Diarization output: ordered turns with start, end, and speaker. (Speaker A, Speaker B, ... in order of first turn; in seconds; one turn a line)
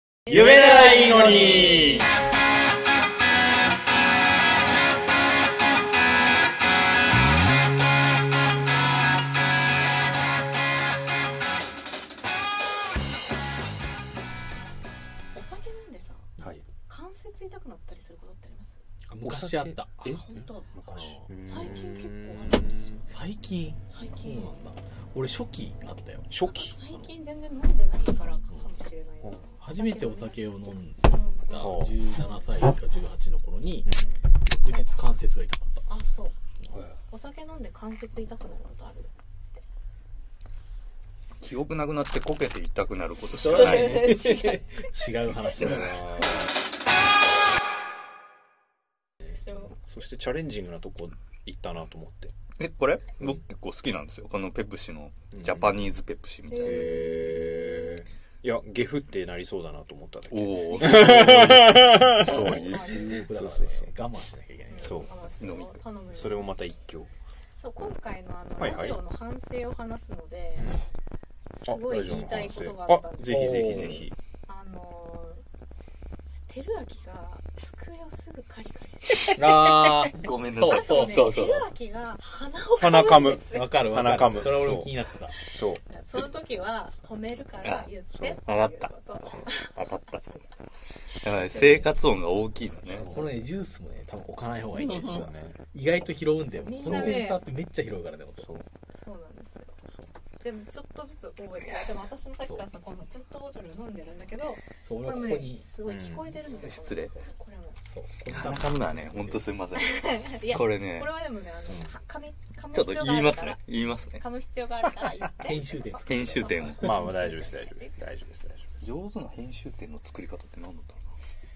Speaker A: 0.3-1.7
Speaker B: 0.3-2.1
Speaker C: 0.3-2.0
Speaker A: 15.3-18.8
Speaker C: 16.4-16.6
Speaker D: 19.1-20.1
Speaker C: 19.2-23.0
Speaker A: 20.1-20.8
Speaker D: 20.9-21.7
Speaker A: 21.4-23.0
Speaker D: 23.0-26.3
Speaker A: 23.9-24.5
Speaker C: 26.3-27.1
Speaker A: 26.4-32.6
Speaker D: 29.6-35.9
Speaker C: 31.5-32.0
Speaker A: 33.9-34.3
Speaker A: 35.9-36.4
Speaker A: 37.1-39.1
Speaker B: 41.4-44.2
Speaker D: 43.2-46.3
Speaker A: 43.4-44.9
Speaker B: 45.6-45.9
Speaker A: 49.2-49.8
Speaker C: 49.8-52.3
Speaker B: 52.6-56.9
Speaker C: 55.3-55.8
Speaker A: 56.5-58.0
Speaker C: 56.6-63.9
Speaker B: 60.3-63.2
Speaker A: 60.6-63.3
Speaker D: 61.6-65.2
Speaker A: 64.7-66.6
Speaker C: 64.8-65.1
Speaker B: 65.4-65.8
Speaker C: 66.1-67.1
Speaker A: 67.6-70.8
Speaker C: 68.6-69.0
Speaker C: 70.6-70.8
Speaker A: 71.5-73.9
Speaker C: 71.7-74.2
Speaker D: 73.2-74.1
Speaker B: 73.6-74.0
Speaker A: 74.5-75.4
Speaker A: 76.3-80.0
Speaker D: 79.3-81.3
Speaker C: 79.4-80.1
Speaker B: 79.5-81.7
Speaker A: 80.6-83.8
Speaker C: 82.8-84.9
Speaker D: 83.3-85.4
Speaker A: 85.3-89.8
Speaker C: 85.5-85.8
Speaker B: 87.6-88.9
Speaker B: 89.5-90.4
Speaker B: 91.2-93.1
Speaker A: 91.5-91.9
Speaker C: 92.9-93.4
Speaker D: 93.0-98.5
Speaker B: 94.7-95.3
Speaker C: 94.9-95.6
Speaker A: 96.6-97.5
Speaker C: 96.8-97.3
Speaker A: 98.9-99.8
Speaker A: 100.4-107.8
Speaker D: 104.8-105.7
Speaker C: 105.8-106.4
Speaker B: 106.5-107.2
Speaker D: 107.9-109.5
Speaker B: 108.3-111.1
Speaker A: 109.8-113.6
Speaker B: 112.7-114.2
Speaker A: 114.1-118.0
Speaker D: 115.4-117.3
Speaker B: 116.1-116.9
Speaker C: 116.8-118.8
Speaker B: 118.8-121.0